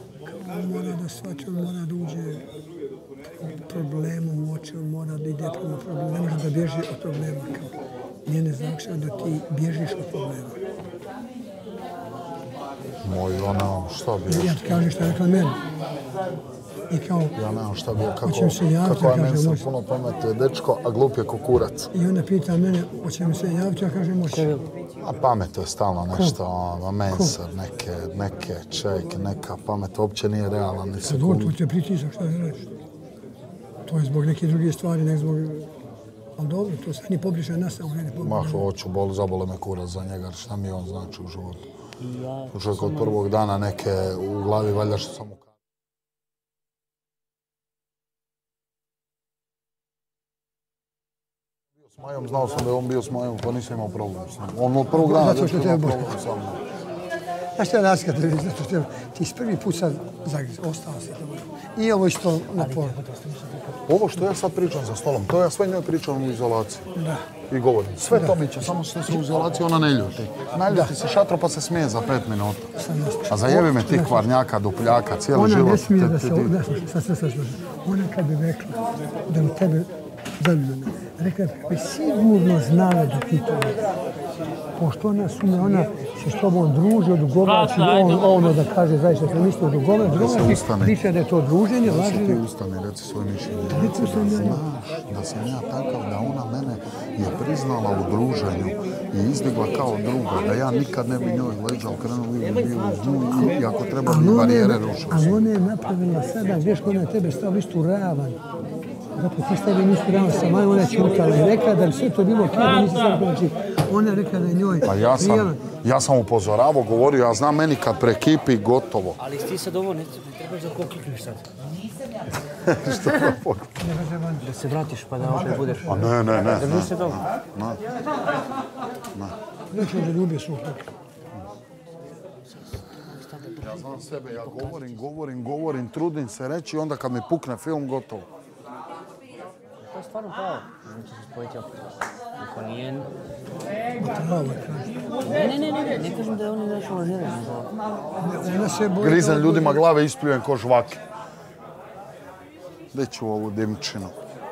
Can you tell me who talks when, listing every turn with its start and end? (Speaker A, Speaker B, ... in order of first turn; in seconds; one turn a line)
Speaker A: 0.2-2.5
Speaker A: 3.4-7.7
Speaker A: 8.2-10.6
Speaker B: 13.0-15.2
Speaker A: 14.3-15.6
Speaker A: 16.9-17.4
Speaker B: 17.4-21.9
Speaker A: 18.2-19.7
Speaker A: 21.9-24.6
Speaker C: 24.3-24.6
Speaker B: 25.0-31.6
Speaker A: 26.1-26.4
Speaker A: 27.1-27.4
Speaker A: 31.1-32.7
Speaker A: 33.9-35.7
Speaker A: 36.4-38.7
Speaker B: 38.2-41.7
Speaker C: 42.0-43.2
Speaker B: 42.5-45.5
Speaker B: 51.8-56.6
Speaker A: 54.9-56.1
Speaker A: 57.6-63.0
Speaker C: 62.6-63.6
Speaker B: 63.9-66.9
Speaker A: 67.0-67.3
Speaker B: 67.5-72.7
Speaker A: 68.1-68.6
Speaker A: 70.7-70.9
Speaker A: 72.8-74.3
Speaker B: 73.3-76.6
Speaker A: 75.3-83.8
Speaker A: 84.8-92.4
Speaker B: 90.0-91.0
Speaker B: 91.8-105.4
Speaker A: 93.7-94.6
Speaker A: 104.0-108.4
Speaker A: 109.2-115.6
Speaker B: 114.8-119.2
Speaker C: 119.2-121.5
Speaker B: 122.6-123.8
Speaker A: 123.8-124.5
Speaker C: 124.4-127.2
Speaker A: 125.2-126.0
Speaker B: 125.9-127.8
Speaker A: 129.7-130.9
Speaker C: 133.0-135.0
Speaker B: 133.6-138.3
Speaker C: 139.9-141.8
Speaker C: 142.4-143.1
Speaker A: 144.0-145.0
Speaker C: 145.2-147.7
Speaker A: 148.2-149.9
Speaker B: 149.0-151.0
Speaker B: 152.9-154.1